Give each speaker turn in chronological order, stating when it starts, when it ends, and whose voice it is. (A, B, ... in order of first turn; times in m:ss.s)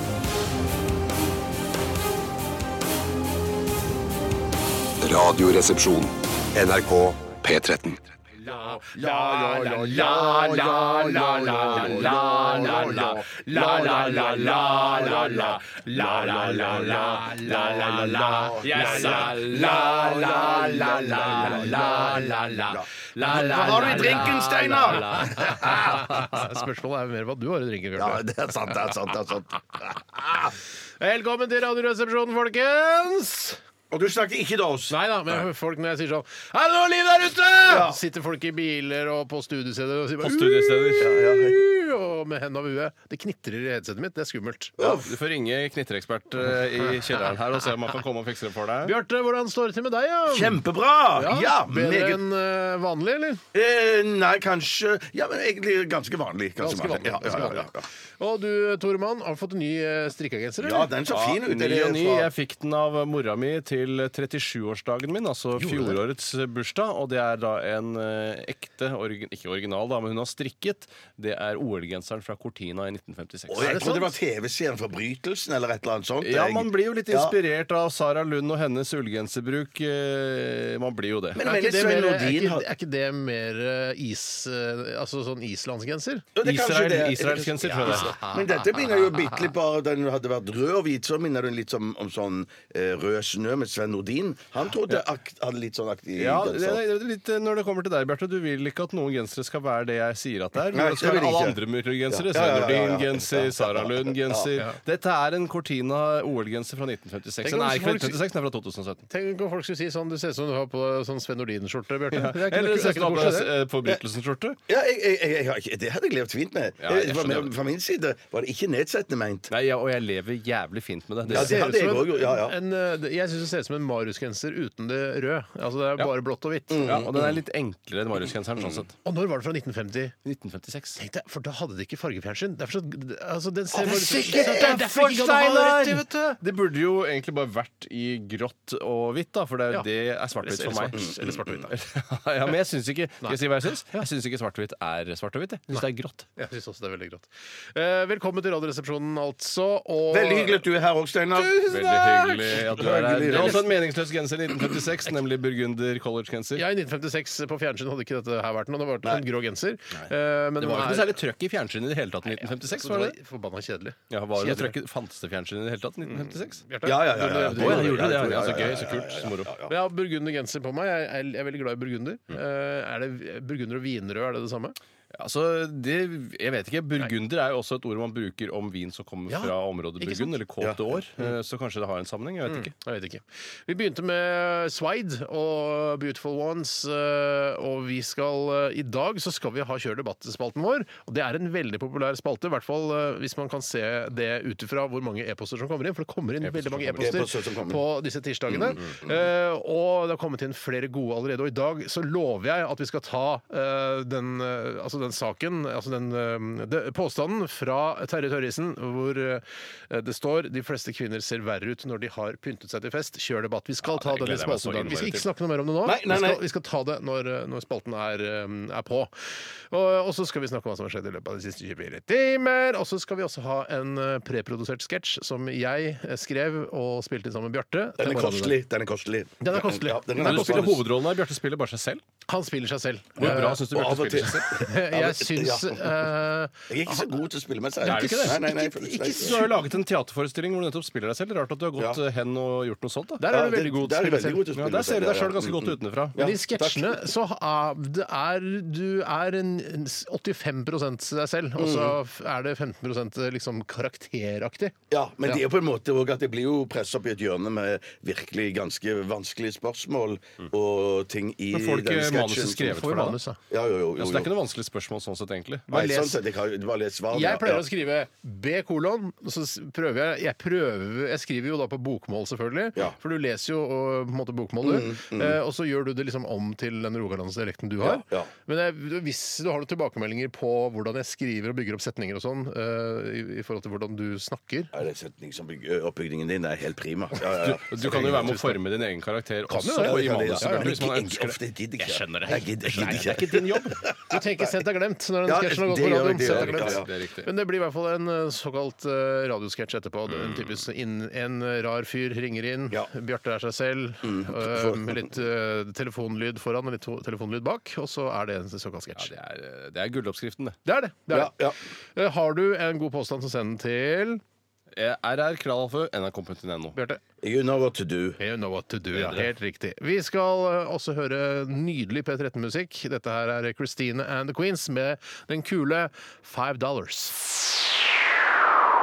0:05.0-0:08.0 A
0:08.4-0:15.6 B
0:08.9-0:26.2 C
0:09.7-0:26.0 D
0:16.3-0:19.4 B
0:21.2-0:22.4 B
0:23.2-0:28.2 B
0:28.0-0:30.5 C
0:31.0-0:33.6 B
0:33.9-0:35.4 C
0:34.9-0:44.8 B
0:37.6-0:38.0 C
0:40.2-0:41.1 D
0:41.0-0:41.6 C
0:44.8-0:45.1 C
0:44.8-0:48.9 D
0:48.8-0:50.6 B
0:50.3-0:52.2 C
0:51.1-0:53.4 B
0:53.5-0:57.8 C
0:56.6-1:00.9 B
1:00.6-1:02.3 C
1:01.1-1:13.8 D
1:05.6-1:06.0 B
1:13.5-1:17.3 C
1:13.6-1:14.1 B
1:16.2-1:21.4 D
1:21.3-1:22.7 C
1:21.4-1:26.3 B
1:26.3-1:36.8 C
1:26.4-1:28.2 D
1:27.8-1:29.3 B
1:36.2-1:49.0 D
1:40.7-1:44.5 C
1:47.4-1:48.2 B
1:49.1-1:53.5 B
1:52.1-1:54.6 D
1:54.7-1:59.5 C
1:56.8-1:57.5 D
1:59.5-2:01.6 D
2:01.3-2:02.6 C
2:01.3-2:07.0 B
2:06.7-2:07.4 C
2:06.8-2:08.9 D
2:08.6-2:08.8 C
2:09.0-2:10.1 B
2:10.2-2:11.0 D
2:11.0-2:16.4 B
2:13.7-2:26.2 D
2:13.8-2:14.8 C
2:20.4-2:21.7 B
2:20.9-2:21.6 C
2:25.7-2:30.6 B
2:30.1-2:31.6 C
2:31.4-2:33.6 B
2:31.6-2:36.6 D
2:32.6-2:33.7 C
2:36.6-2:41.2 B
2:40.6-2:43.2 D
2:42.3-2:44.7 B
2:44.1-2:49.5 D
2:46.0-2:48.5 B
2:46.8-2:49.7 C
2:49.7-2:54.8 B
2:55.1-3:02.7 D
2:59.3-3:00.3 B
3:00.6-3:00.9 C
3:02.5-3:39.1 B
3:16.4-3:17.2 D
3:17.0-3:17.8 C
3:18.5-3:19.1 C
3:33.8-3:35.3 D
3:35.8-3:36.4 C
3:39.7-3:48.6 B
3:48.0-3:50.8 C
3:49.4-3:50.8 B
3:50.2-3:52.0 D
3:52.3-3:53.6 B
3:53.2-3:54.5 D
3:53.2-3:56.0 C
3:54.5-3:57.1 B
3:56.7-3:59.4 C
3:57.8-3:59.5 B
3:57.8-3:58.4 D
3:59.1-4:03.2 D
4:03.2-4:04.4 B
4:03.3-4:07.1 C
4:04.5-4:06.2 D
4:06.2-4:15.4 B
4:11.6-4:12.0 C
4:14.9-4:22.8 C
4:21.5-4:23.2 D
4:22.6-4:23.4 B
4:23.5-4:24.3 C
4:24.0-4:25.7 D
4:25.7-4:26.2 B
4:25.7-4:27.6 C
4:27.1-4:44.7 B
4:34.6-4:35.4 C
4:37.8-4:38.3 C
4:44.7-4:48.4 C
4:47.4-4:53.8 D
4:48.0-4:48.6 B
4:49.5-4:51.0 B
4:49.7-4:54.5 C
4:52.3-4:53.3 B
4:54.0-5:09.1 B
4:55.2-4:56.9 C
4:56.2-4:57.3 D
5:00.1-5:00.5 D
5:04.0-5:05.1 C
5:09.0-5:10.6 D
5:10.6-5:11.3 B
5:11.1-5:11.6 C
5:12.0-5:14.2 B
5:14.7-5:16.8 D
5:16.7-5:17.0 B
5:17.2-5:18.2 C
5:18.2-5:27.4 B
5:19.0-5:19.2 D